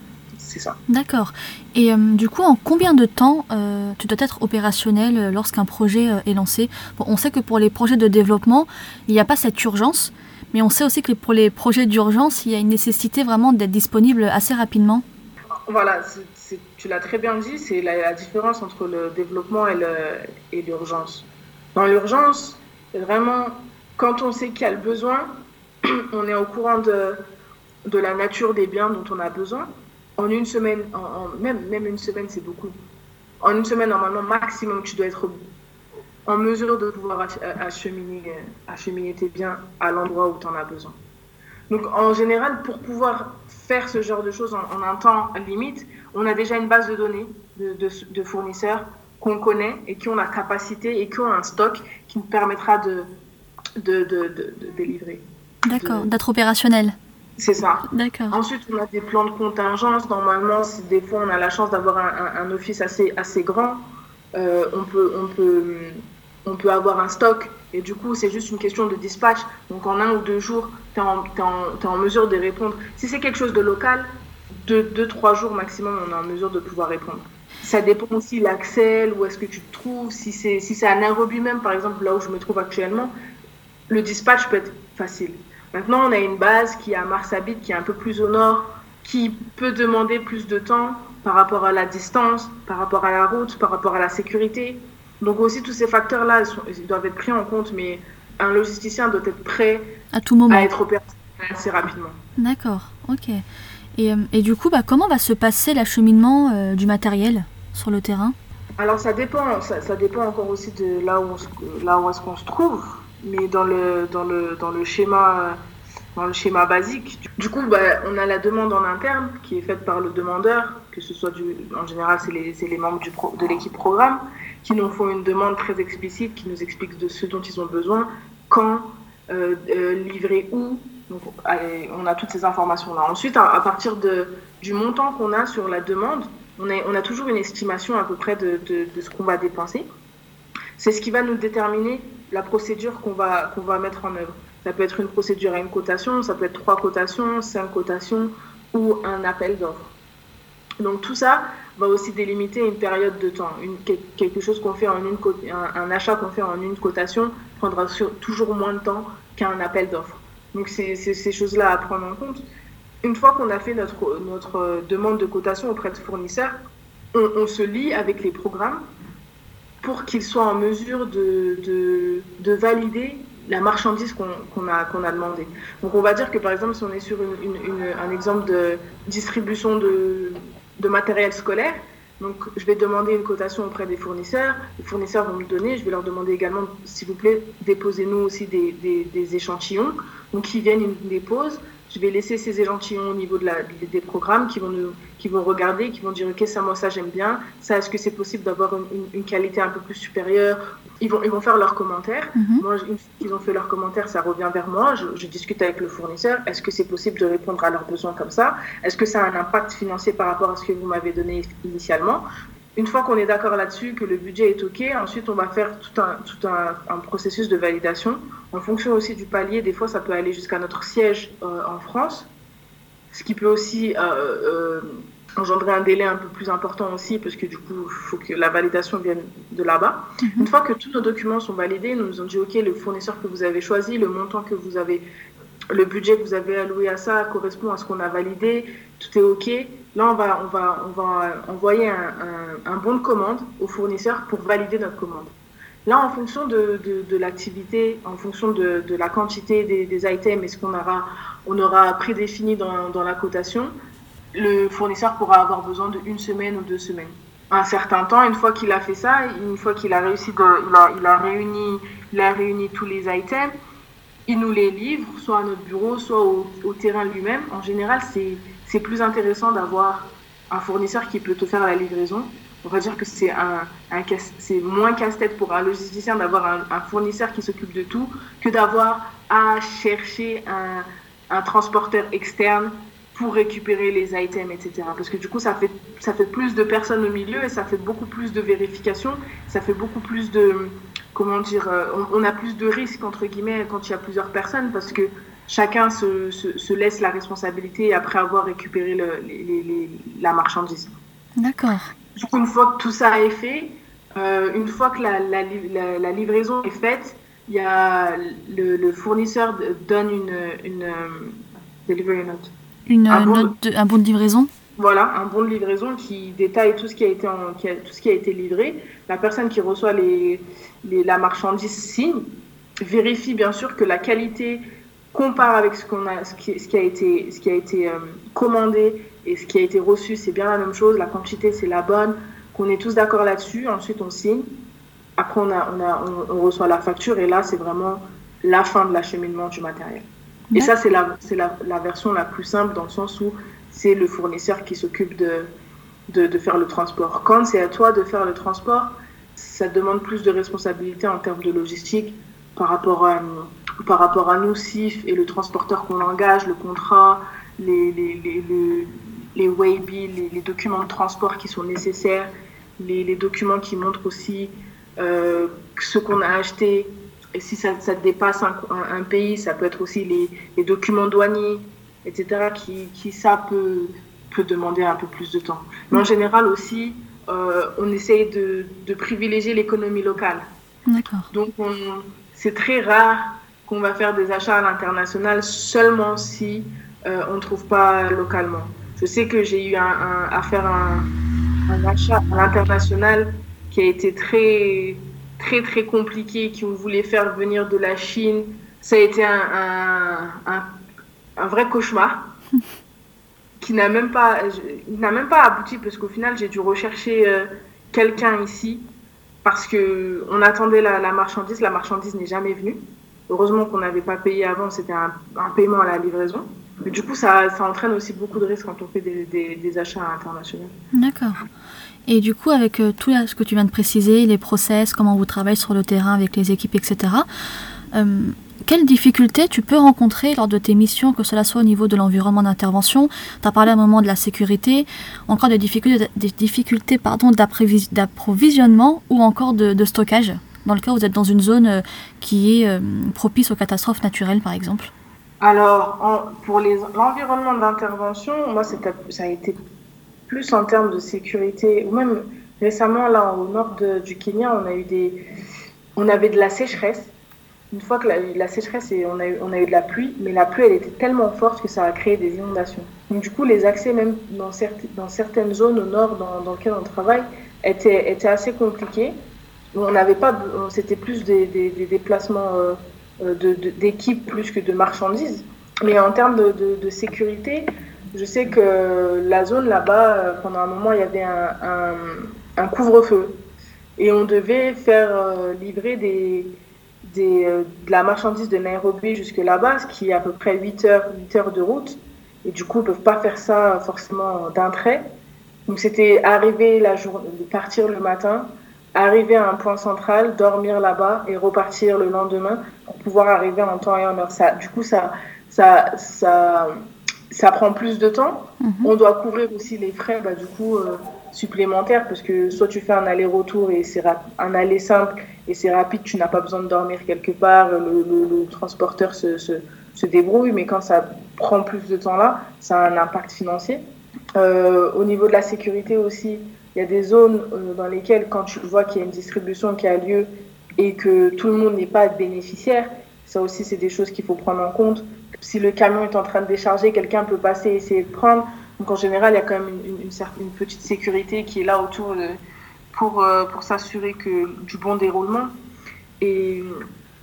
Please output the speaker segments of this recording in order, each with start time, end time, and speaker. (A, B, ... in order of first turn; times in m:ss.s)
0:00.4-0:00.8 A
0:00.9-0:15.0 B
0:15.7-0:25.4 A
0:26.1-0:27.2 A
0:27.9-0:32.7 A
0:33.4-0:35.3 A
0:36.2-0:41.0 A
0:41.7-0:53.1 A
0:53.8-0:56.1 A
0:55.6-0:57.0 B
0:57.4-1:14.1 A
0:57.9-0:58.4 B
1:14.6-1:23.1 A
1:23.9-1:40.0 A
1:40.1-1:40.7 B
1:40.5-1:42.2 A
1:42.4-1:43.4 B
1:44.0-1:48.4 B
1:48.8-1:55.6 A
1:56.2-2:19.9 A
2:20.8-2:29.9 A
2:30.8-2:42.4 A
2:43.0-2:46.5 A
2:47.1-2:48.8 A
2:49.8-3:42.3 A
3:22.4-3:22.6 B
3:43.1-3:55.0 A
3:50.2-3:50.5 B
3:55.7-4:05.3 A
4:05.8-4:13.7 A
4:14.3-4:23.5 A
4:24.3-5:00.9 A
5:01.4-5:01.9 B
5:02.2-5:12.5 A
5:12.9-5:14.5 B
5:13.1-5:13.5 A
5:14.8-5:22.2 A
5:22.8-5:34.5 A
5:35.2-5:45.5 A
5:46.1-6:20.4 A
6:20.9-6:21.3 B
6:21.3-6:31.1 A
6:31.7-6:40.7 A
6:41.4-6:42.3 A
6:43.6-6:48.9 A
6:49.4-7:00.7 A
7:00.9-7:01.4 B
7:02.1-7:07.3 B
7:07.9-7:24.9 B
7:25.4-7:29.6 A
7:30.3-7:35.2 A
7:36.0-7:37.1 A
7:37.7-7:49.2 A
7:49.7-8:03.4 A
8:04.0-8:15.0 A
8:15.7-8:26.7 A
8:27.3-8:43.8 A
8:28.6-8:28.9 B
8:44.4-9:02.4 A
9:02.9-9:05.5 A
9:06.2-9:06.8 A